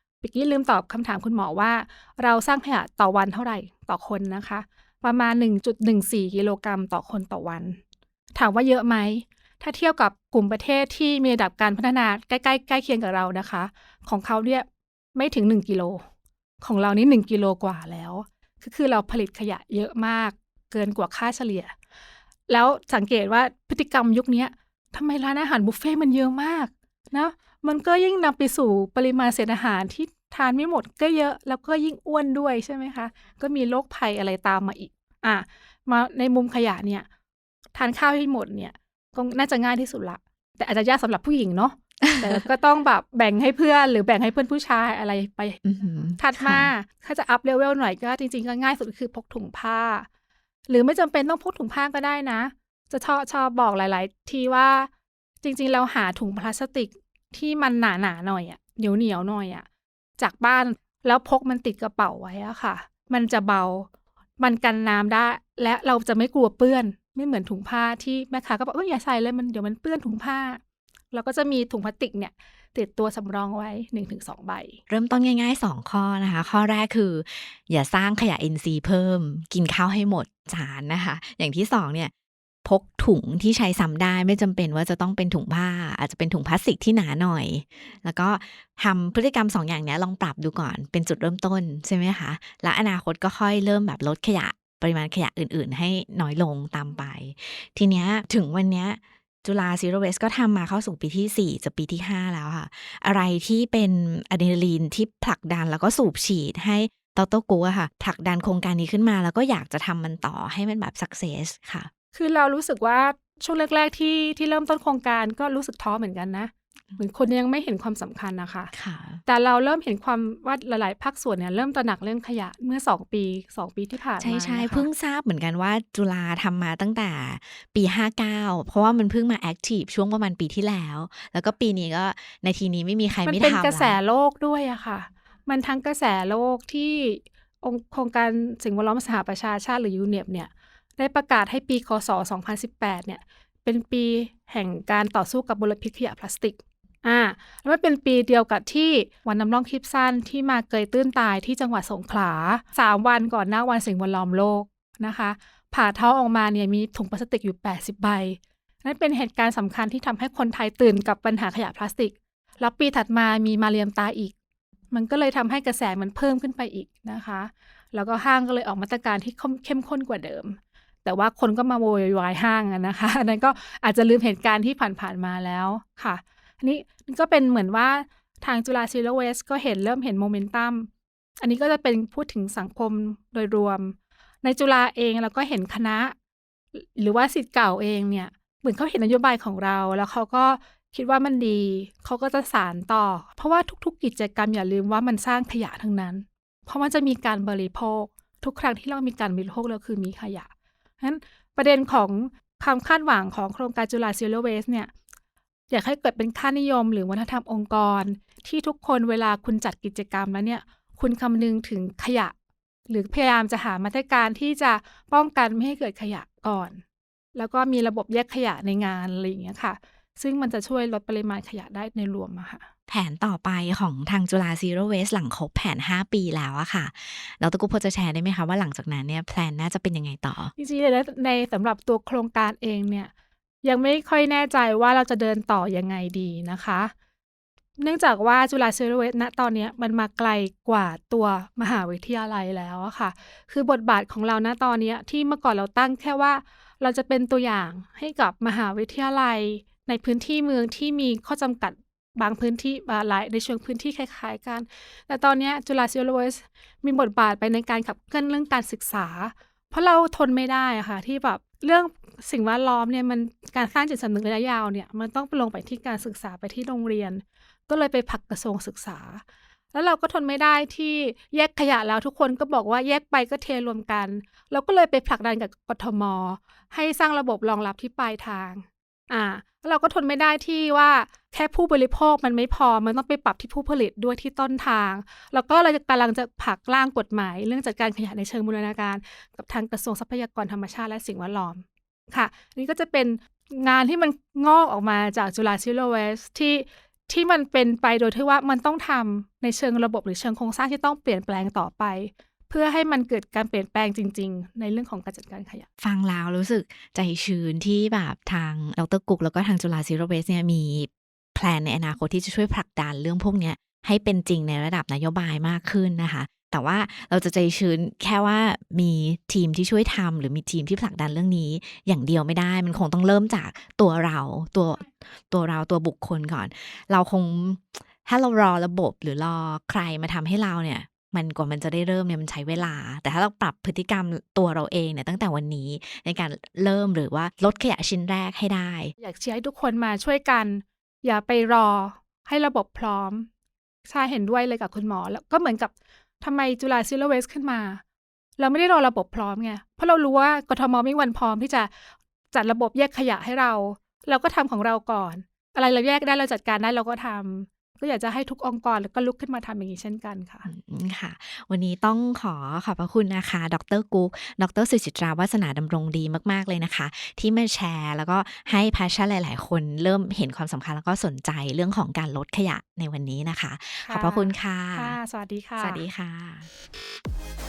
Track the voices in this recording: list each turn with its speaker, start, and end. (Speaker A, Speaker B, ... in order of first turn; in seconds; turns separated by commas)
Speaker A: 0.2-7.8, Speaker A: 8.3-16.0, Speaker A: 16.6-21.7, Speaker A: 22.5-37.1, Speaker A: 37.8-45.6, Speaker B: 45.6-46.7, Speaker A: 46.2-50.1, Speaker A: 50.7-54.9, Speaker A: 55.4-59.7, Speaker A: 60.2-63.9, Speaker A: 64.4-70.6, Speaker A: 71.1-74.8, Speaker B: 74.9-82.1, Speaker B: 82.6-111.9, Speaker A: 112.1-118.7, Speaker B: 118.7-119.2, Speaker A: 119.3-124.9, Speaker B: 124.2-134.0, Speaker A: 133.2-164.3, Speaker A: 164.9-186.2, Speaker A: 186.8-200.5, Speaker A: 201.0-204.9, Speaker A: 205.7-212.3, Speaker A: 212.9-216.8, Speaker A: 217.3-222.7, Speaker B: 222.9-230.5, Speaker A: 230.6-233.1, Speaker A: 233.6-236.9, Speaker A: 237.8-305.7, Speaker B: 305.8-338.9, Speaker A: 339.0-343.3, Speaker A: 343.9-347.8, Speaker A: 348.4-351.7, Speaker A: 352.3-360.5, Speaker B: 360.5-375.0, Speaker A: 373.9-375.9, Speaker B: 375.6-376.5